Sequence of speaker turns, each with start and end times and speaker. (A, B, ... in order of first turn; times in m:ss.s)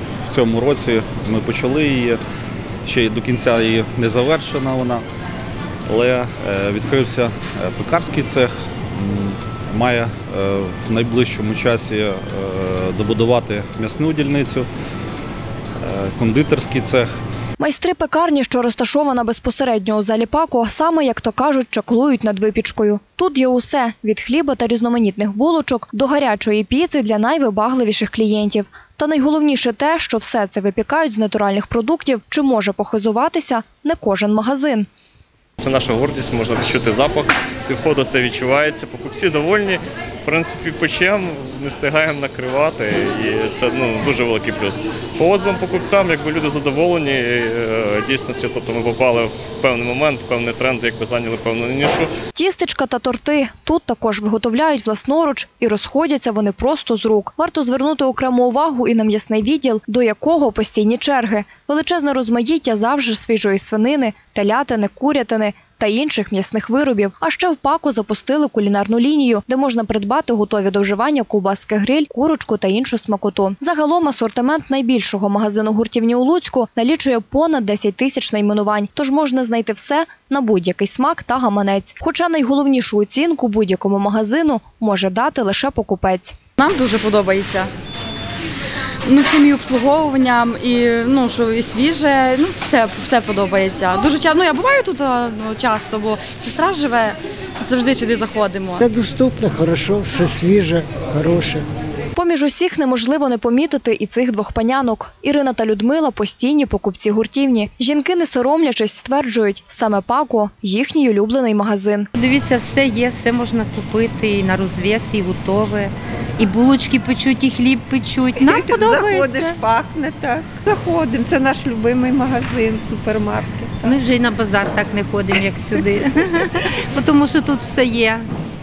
0:00.3-0:02.2 A
0:02.8-0:05.0 A
0:05.8-0:14.7 A
0:15.8-0:17.1 A
0:17.6-0:34.9 B
0:35.6-0:52.1 C
0:52.3-1:26.4 B
1:26.6-1:27.7 D
1:29.0-1:38.8 D
1:38.8-1:41.6 E
1:42.2-1:52.1 B
1:52.2-1:59.5 F
1:58.4-2:04.0 G
2:03.8-2:06.0 F
2:06.9-2:08.2 F